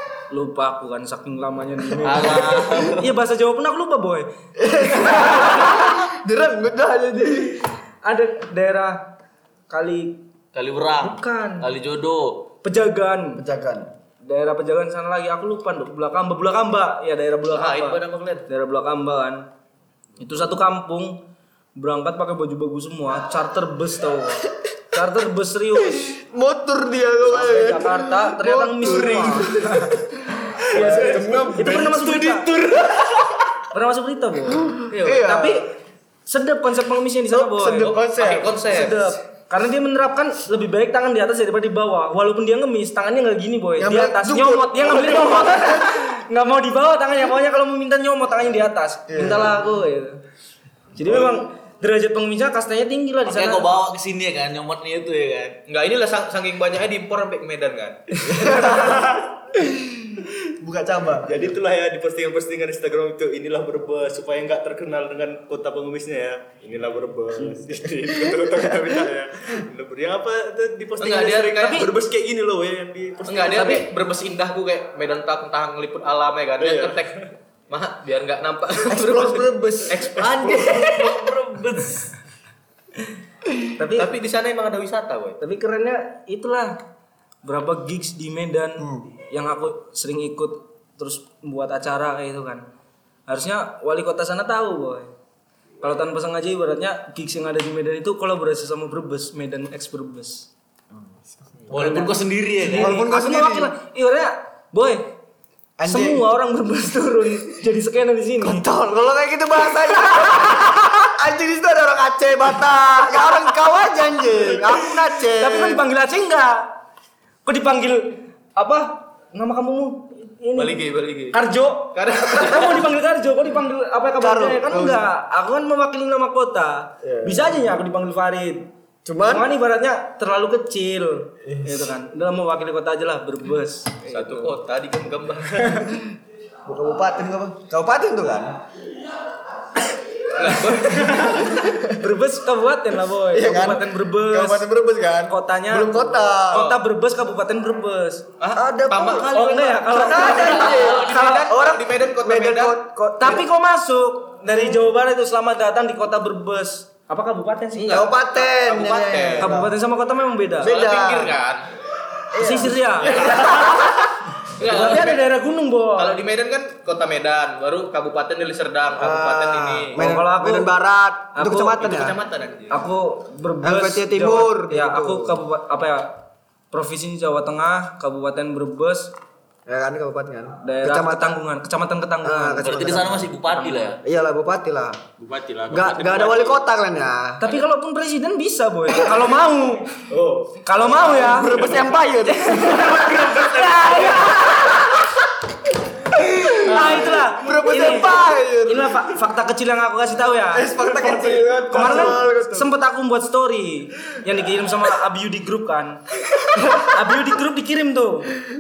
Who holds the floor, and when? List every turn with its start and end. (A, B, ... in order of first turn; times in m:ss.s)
0:00.3-0:05.9 A
0:02.0-0:03.1 B
0:04.6-0:07.7 C
0:08.0-0:09.0 A
0:09.7-0:10.2 A
0:10.5-0:12.5 B
0:11.0-0:11.7 A
0:12.6-0:13.4 A
0:13.4-0:13.9 C
0:14.2-0:19.4 A
0:17.5-0:18.4 D
0:20.2-0:21.2 A
0:21.8-0:26.2 A
0:25.9-0:29.9 C
0:27.3-0:30.0 A
0:30.6-0:32.5 A
0:30.7-0:32.5 C
0:30.8-0:31.6 E
0:32.2-0:33.3 E
0:33.7-0:35.7 A
0:34.6-0:35.6 C
0:34.9-0:35.3 D
0:36.3-0:38.0 A
0:37.3-0:38.6 C
0:37.8-0:39.1 D
0:38.6-0:50.2 A
0:43.8-0:45.7 C
0:49.1-0:49.6 C
0:51.0-0:53.7 A
0:53.3-0:55.6 B
0:55.7-0:58.3 D
0:58.3-0:59.0 C
0:58.7-0:59.4 E
0:59.6-1:01.5 C
1:01.2-1:13.8 E
1:11.0-1:11.9 D
1:11.6-1:11.9 A
1:13.2-1:21.3 D
1:16.6-1:17.2 E
1:18.8-1:20.9 C
1:20.6-1:21.9 E
1:21.8-1:22.1 B
1:23.8-1:24.1 A
1:24.0-1:25.4 D
1:25.4-1:26.8 A
1:27.4-1:32.6 A
1:28.8-1:29.1 C
1:33.3-1:35.1 A
1:35.8-1:40.5 A
1:41.0-1:41.6 C
1:41.7-1:43.0 B
1:41.7-1:45.1 A
1:42.6-1:43.7 C
1:45.8-1:46.2 C
1:45.9-1:48.6 A
1:48.4-1:55.8 C
1:55.3-1:56.7 A
1:57.4-2:00.8 A
2:00.6-2:01.4 D
2:01.3-2:08.7 A
2:01.9-2:02.9 D
2:04.2-2:05.0 C
2:07.0-2:07.6 C
2:09.0-2:09.5 C
2:09.2-2:14.6 A
2:11.4-2:11.9 C
2:14.1-2:15.9 D
2:16.7-2:18.6 C
2:20.4-2:21.6 D
2:20.6-2:22.0 C
2:21.0-2:24.7 A
2:23.3-2:26.8 C
2:25.3-2:28.3 A
2:28.4-2:32.8 D
2:28.5-2:33.5 C
2:29.2-2:31.3 A
2:30.8-2:31.0 B
2:33.2-2:38.0 A
2:37.8-2:39.6 D
2:37.9-2:39.7 C
2:39.4-2:40.8 A
2:40.6-2:41.4 C
2:40.6-2:41.7 D
2:42.3-2:43.6 C
2:42.4-2:43.6 A
2:43.0-2:44.0 D
2:44.5-2:45.3 D
2:44.6-2:46.2 A
2:46.0-2:50.0 D
2:49.0-2:52.2 C
2:50.0-2:50.7 A
2:51.4-2:51.9 A
2:51.8-2:52.8 D
2:52.7-2:56.2 A
2:53.6-2:55.4 C
2:56.7-2:59.1 A
2:59.7-3:01.4 C
3:00.6-3:04.0 A
3:02.2-3:03.4 C
3:02.6-3:04.0 B
3:04.0-3:05.0 C
3:05.2-3:06.6 B
3:05.7-3:07.4 C
3:07.4-3:10.0 A
3:08.9-3:09.2 C
3:10.1-3:11.9 E
3:10.6-3:11.7 A
3:10.9-3:13.0 C
3:12.2-3:14.9 A
3:12.6-3:14.3 E
3:16.1-3:19.1 C
3:16.5-3:21.1 A
3:16.7-3:17.2 D
3:20.5-3:22.7 C
3:21.7-3:28.4 A
3:26.6-3:27.0 C